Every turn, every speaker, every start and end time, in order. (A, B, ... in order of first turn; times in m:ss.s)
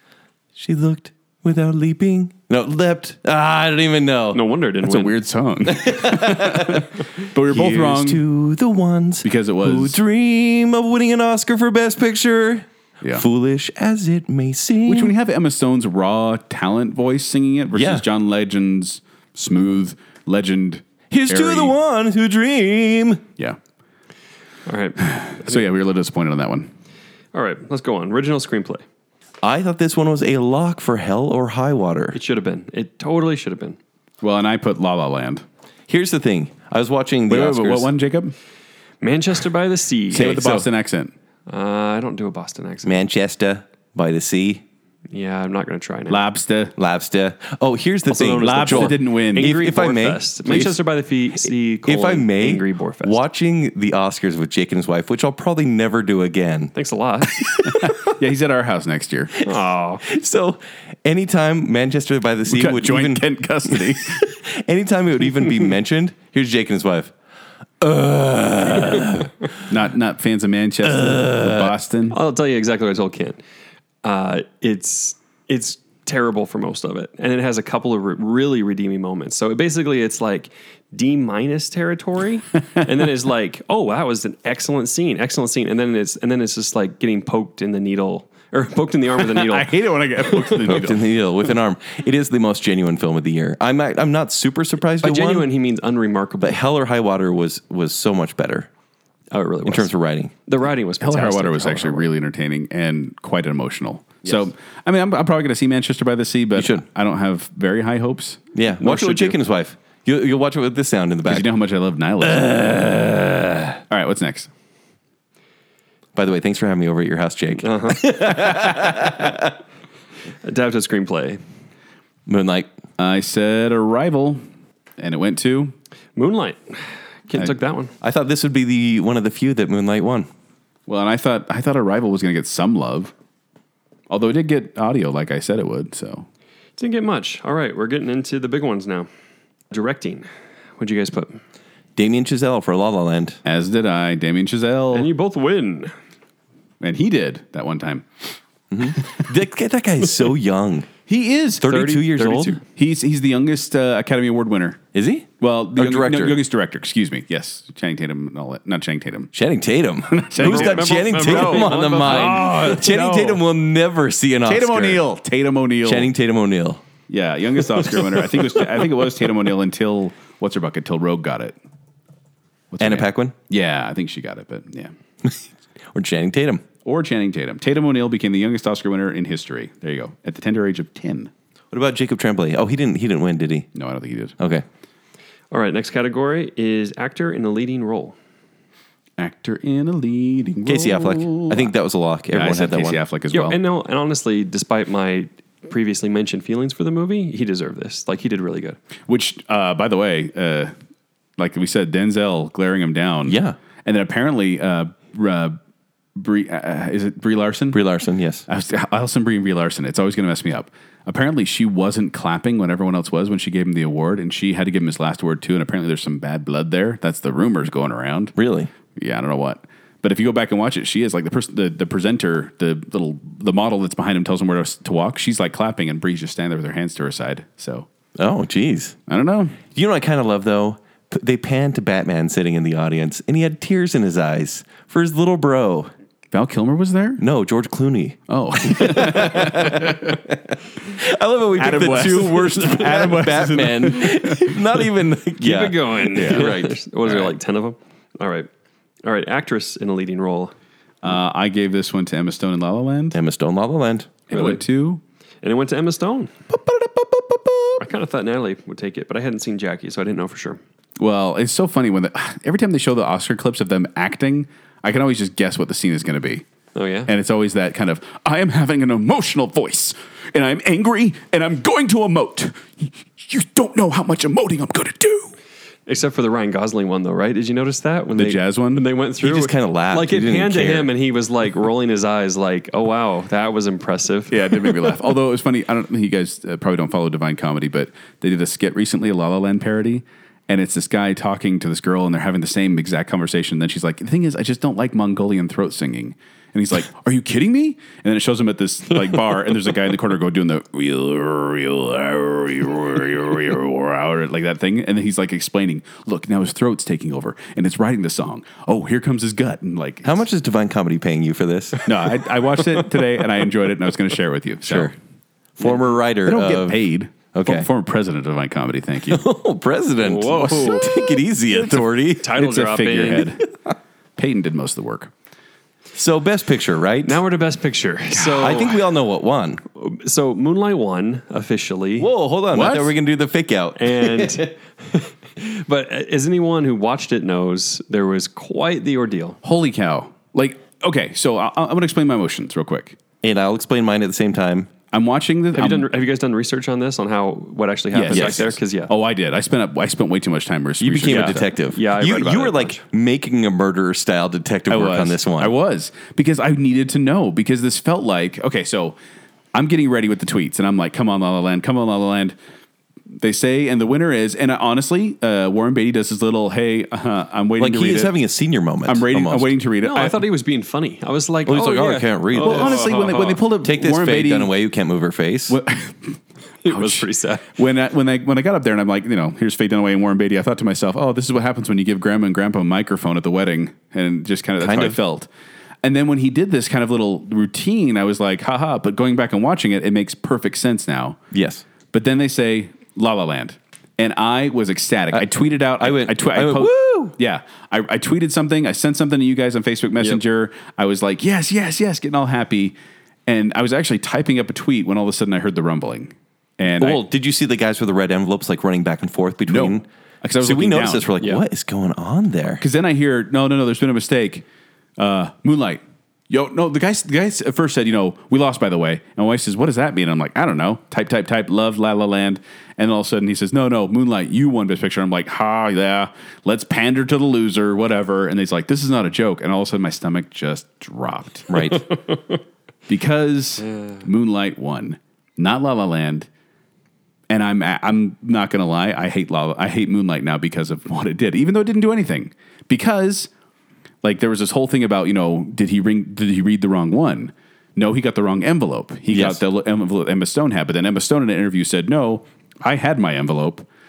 0:00.6-0:04.4 A
0:04.3-0:05.2 B
0:04.8-0:08.2 C
0:05.7-0:06.9 A
0:07.5-0:15.1 A
0:09.2-0:10.0 C
0:14.8-0:21.8 C
0:17.7-0:18.0 A
0:21.1-0:23.2 A
0:24.7-0:25.6 B
0:25.0-0:26.7 C
0:27.3-0:28.8 B
0:29.4-0:32.2 A
0:32.1-0:33.8 B
0:34.2-0:35.4 C
0:35.9-0:37.9 A
0:37.3-0:38.4 C
0:39.0-0:40.3 B
0:40.1-0:40.7 A
0:40.1-0:41.1 C
0:41.5-0:43.0 B
0:42.8-0:44.6 A
0:45.1-0:46.2 B
0:46.1-0:46.7 C
0:46.8-0:50.8 A
0:48.1-0:53.2 B
0:48.4-0:49.5 C
0:51.9-0:56.7 A
0:56.8-0:57.6 B
0:57.5-0:58.0 A
0:57.6-0:59.3 C
0:59.4-1:00.0 B
0:59.5-1:07.1 A
1:02.5-1:04.2 C
1:07.8-1:09.3 A
1:09.7-1:12.2 C
1:10.8-1:11.7 A
1:12.1-1:13.4 B
1:14.0-1:30.6 B
1:29.2-1:31.1 C
1:30.6-1:35.5 A
1:35.0-1:36.6 B
1:36.4-1:38.7 A
1:39.3-1:39.9 B
1:39.6-1:40.3 A
1:40.5-1:42.1 B
1:41.0-1:48.4 C
1:46.6-1:46.8 A
1:48.5-1:51.5 A
1:48.8-1:49.4 B
1:51.2-1:52.8 C
1:52.2-1:53.7 A
1:53.9-1:54.5 C
1:56.2-1:59.6 A
1:57.6-1:58.4 B
2:00.4-2:01.4 B
2:02.3-2:02.7 A
2:03.0-2:04.4 C
2:05.0-2:05.7 C
2:06.2-2:07.9 B
2:08.0-2:10.3 A
2:10.9-2:13.1 C
2:14.1-2:16.3 C
2:16.8-2:19.1 B
2:19.7-2:20.3 B
2:20.8-2:21.4 B
2:22.0-2:23.4 A
2:23.4-2:25.1 C
2:24.9-2:25.9 B
2:26.8-2:28.0 C
2:28.7-2:30.9 A
2:29.0-2:29.2 C
2:31.1-2:32.0 C
2:31.6-2:32.6 A
2:31.7-2:32.6 B
2:32.6-2:34.8 C
2:34.9-2:36.4 A
2:35.4-2:39.3 C
2:39.3-2:45.0 A
2:40.1-2:43.4 C
2:40.4-2:42.8 B
2:44.4-2:46.1 C
2:45.8-2:46.8 A
2:47.1-2:51.6 C
2:52.7-2:54.9 C
2:52.8-2:53.3 A
2:55.9-2:56.6 A
2:56.8-3:01.3 C
3:01.7-3:03.7 A
3:03.8-3:04.4 C
3:04.4-3:04.6 A
3:05.5-3:08.2 B
3:09.2-3:11.7 C
3:10.7-3:13.0 A
3:12.3-3:13.6 C
3:13.3-3:18.8 B
3:19.1-3:20.7 C
3:21.4-3:25.6 C
3:23.3-3:23.6 A
3:26.2-3:27.8 C
3:27.7-3:28.5 A
3:28.5-3:38.3 C
3:38.4-3:38.7 A
3:39.0-3:47.9 C
3:48.2-3:49.0 A
3:49.1-3:49.6 C
3:49.7-3:55.9 A
3:56.3-3:57.2 C
3:57.2-4:06.8 A
3:58.3-4:00.2 C
4:01.6-4:04.6 C
4:05.4-4:08.5 B
4:06.1-4:06.5 C
4:09.0-4:10.5 B
4:11.0-4:13.2 C
4:13.1-4:14.1 A
4:14.3-4:15.0 C
4:14.3-4:14.6 B
4:15.4-4:16.3 B
4:16.5-4:17.8 C
4:17.8-4:20.6 B
4:21.0-4:26.4 C
4:26.8-4:27.1 B
4:27.1-4:35.3 C
4:35.9-4:44.9 B
4:38.2-4:38.8 C
4:39.2-4:40.9 A
4:44.3-5:10.2 C
5:10.0-5:12.2 A
5:11.8-5:14.9 C
5:14.6-5:14.9 A
5:15.6-5:16.8 A
5:15.6-5:19.2 C
5:17.3-5:17.7 A
5:19.0-5:22.3 A
5:20.0-5:20.9 B
5:20.4-5:20.8 C
5:22.2-5:23.3 B
5:22.4-5:23.4 C
5:24.2-5:25.1 C
5:25.9-5:27.2 A
5:27.1-5:28.9 B
5:28.2-5:28.4 C
5:28.3-5:29.6 A
5:29.8-5:32.1 B
5:32.0-5:34.5 A
5:32.5-5:32.9 C
5:33.8-5:39.4 B
5:39.4-5:43.0 C
5:43.2-5:44.7 A
5:44.9-5:45.9 C
5:45.5-5:48.9 B
5:47.9-5:51.5 C
5:48.1-5:48.5 A
5:50.8-5:55.5 A
5:51.1-5:52.8 B
5:54.7-5:59.0 C
5:59.5-6:02.4 C
6:03.2-6:08.2 C
6:07.6-6:09.6 A
6:08.8-6:10.2 C
6:09.8-6:13.4 B
6:11.4-6:12.9 A
6:12.4-6:14.5 C
6:13.6-6:15.6 A
6:15.5-6:25.3 C
6:16.6-6:17.5 B
6:24.6-6:25.0 A
6:25.8-6:31.2 C
6:31.3-6:31.6 A
6:31.9-6:42.8 C
6:35.8-6:37.2 A
6:43.3-6:47.0 C
6:46.8-6:49.9 A
6:49.5-6:51.1 C
6:50.4-6:52.6 A
6:52.6-6:54.4 C
6:55.0-7:11.7 C
7:11.5-7:11.9 A
7:12.9-7:16.3 C
7:17.3-7:23.3 C
7:24.0-7:33.7 C
7:29.1-7:29.4 A